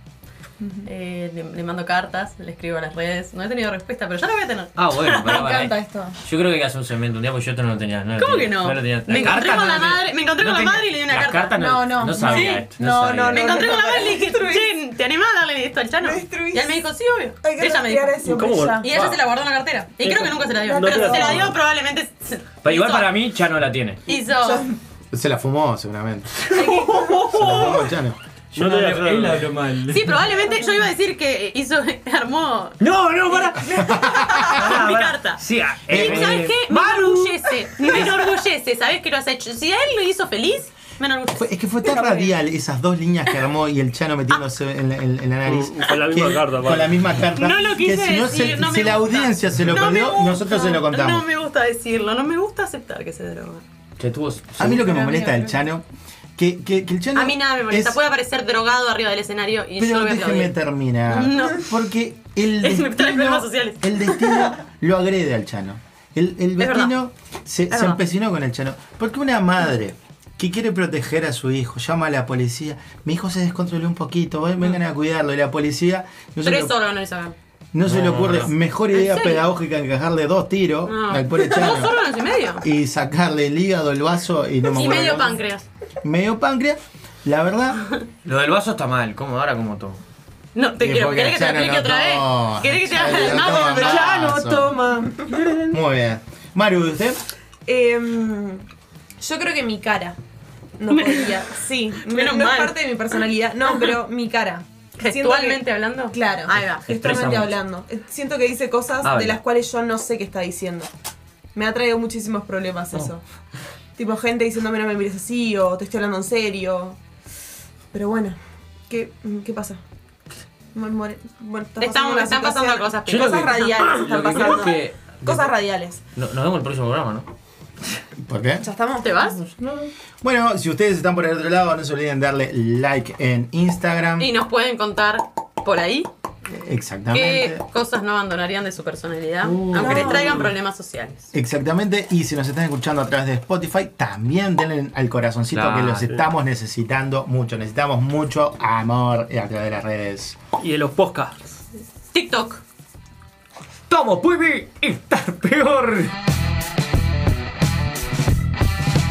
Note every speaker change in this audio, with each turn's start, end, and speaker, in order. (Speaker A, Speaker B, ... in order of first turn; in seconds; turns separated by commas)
Speaker A: 0.8-5.4, Speaker B: 4.8-13.6, Speaker C: 5.3-6.2, Speaker A: 8.2-11.6, Speaker C: 11.5-14.7, Speaker A: 12.2-12.7, Speaker A: 13.3-18.1, Speaker C: 16.0-16.9, Speaker C: 17.4-19.0, Speaker D: 18.2-19.2, Speaker A: 18.8-23.1, Speaker D: 20.0-21.6, Speaker C: 20.0-21.6, Speaker B: 22.6-24.0, Speaker A: 24.1-24.7, Speaker C: 24.1-24.7, Speaker E: 25.1-26.6, Speaker A: 26.5-27.8, Speaker B: 26.5-27.7, Speaker E: 27.3-28.2, Speaker B: 28.5-30.3, Speaker D: 28.6-29.5, Speaker A: 29.9-42.3, Speaker B: 32.8-33.9, Speaker E: 33.7-34.6, Speaker B: 34.5-37.3, Speaker E: 35.9-36.4, Speaker E: 41.4-51.3, Speaker D: 45.4-47.0, Speaker A: 47.3-53.6, Speaker B: 54.0-54.9, Speaker E: 54.6-55.8, Speaker A: 54.6-55.6, Speaker E: 56.4-58.0, Speaker A: 57.1-60.5, Speaker E: 59.8-76.7, Speaker A: 61.1-61.7, Speaker A: 62.6-64.5, Speaker A: 66.6-66.9, Speaker A: 67.7-68.0, Speaker A: 76.4-77.3, Speaker E: 77.7-82.0, Speaker B: 77.8-78.5, Speaker A: 78.9-79.5, Speaker A: 80.8-82.7, Speaker E: 82.6-85.4, Speaker A: 84.7-85.6, Speaker E: 86.0-87.8, Speaker B: 88.2-90.0, Speaker A: 90.5-94.1, Speaker E: 90.8-94.8, Speaker C: 93.3-95.5, Speaker E: 95.7-97.2, Speaker C: 97.7-98.6, Speaker C: 99.2-100.2, Speaker C: 100.8-110.9, Speaker A: 100.9-101.4, Speaker A: 102.0-102.8, Speaker A: 105.0-106.8, Speaker B: 106.5-107.6, Speaker B: 109.0-109.4, Speaker C: 111.5-113.2, Speaker C: 114.0-117.0, Speaker C: 117.9-118.4, Speaker C: 118.9-119.8, Speaker C: 120.7-126.0, Speaker A: 121.8-123.8, Speaker B: 123.1-125.5, Speaker B: 126.1-127.3, Speaker E: 128.2-128.7, Speaker C: 128.6-129.4, Speaker A: 129.0-129.4, Speaker B: 129.4-129.9, Speaker E: 130.2-134.3, Speaker A: 134.2-136.1, Speaker E: 136.5-137.6, Speaker A: 137.1-141.3, Speaker B: 139.4-140.5, Speaker C: 139.7-140.5, Speaker E: 141.3-150.4, Speaker B: 145.5-146.1, Speaker D: 150.6-151.6, Speaker A: 152.1-152.6, Speaker B: 153.9-156.1